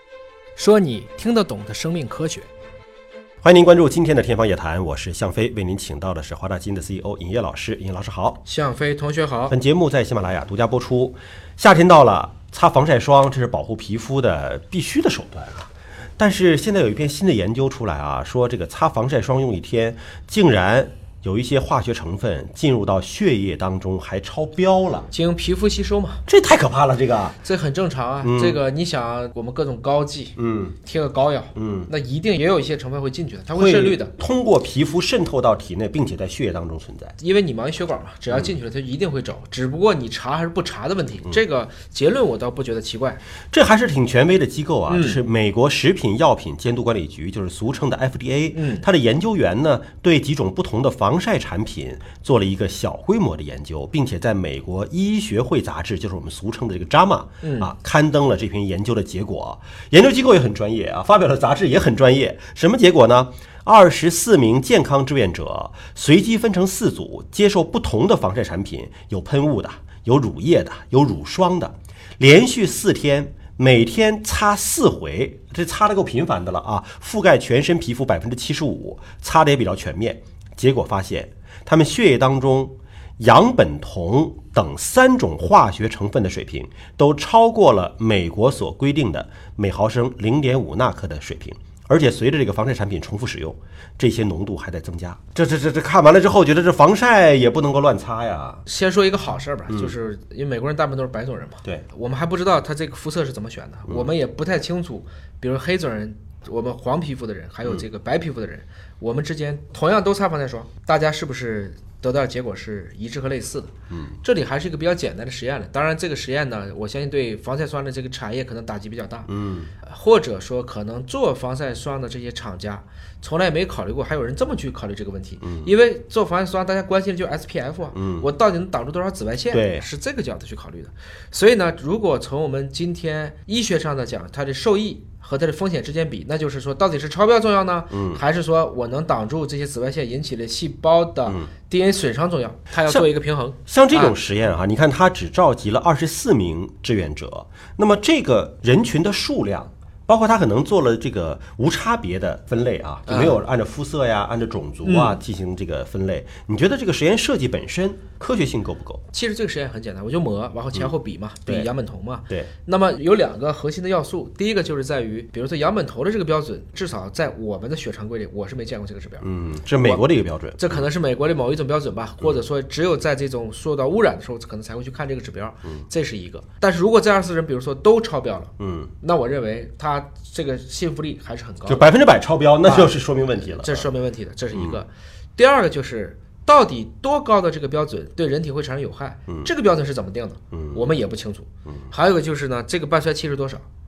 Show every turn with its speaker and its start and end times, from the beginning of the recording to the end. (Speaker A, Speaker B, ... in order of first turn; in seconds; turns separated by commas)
Speaker A: 0.6-2.5, Speaker B: 3.4-8.4, Speaker A: 8.4-9.6, Speaker B: 9.5-25.1, Speaker A: 25.1-26.2, Speaker B: 26.3-27.4, Speaker A: 27.4-34.1, Speaker B: 28.2-28.6, Speaker B: 30.4-30.8, Speaker B: 31.6-31.9, Speaker B: 33.5-37.1, Speaker A: 37.2-43.2, Speaker B: 43.5-98.6, Speaker A: 44.9-45.2, Speaker A: 48.5-48.9, Speaker A: 57.4-57.7, Speaker A: 98.7-119.3, Speaker B: 113.9-114.2, Speaker B: 119.3-119.7, Speaker A: 119.8-144.2, Speaker B: 125.4-125.7, Speaker B: 127.9-128.3, Speaker B: 129.5-129.9, Speaker B: 137.9-138.2, Speaker B: 143.7-159.0, Speaker A: 153.1-153.4, Speaker A: 154.8-155.2, Speaker A: 159.1-169.3, Speaker B: 169.2-170.8, Speaker A: 169.8-170.1, Speaker A: 170.6-181.8, Speaker B: 178.6-178.9, Speaker B: 181.7-183.9, Speaker A: 182.6-182.9, Speaker A: 183.5-193.7, Speaker B: 184.5-184.8, Speaker B: 190.5-190.8, Speaker B: 191.7-191.9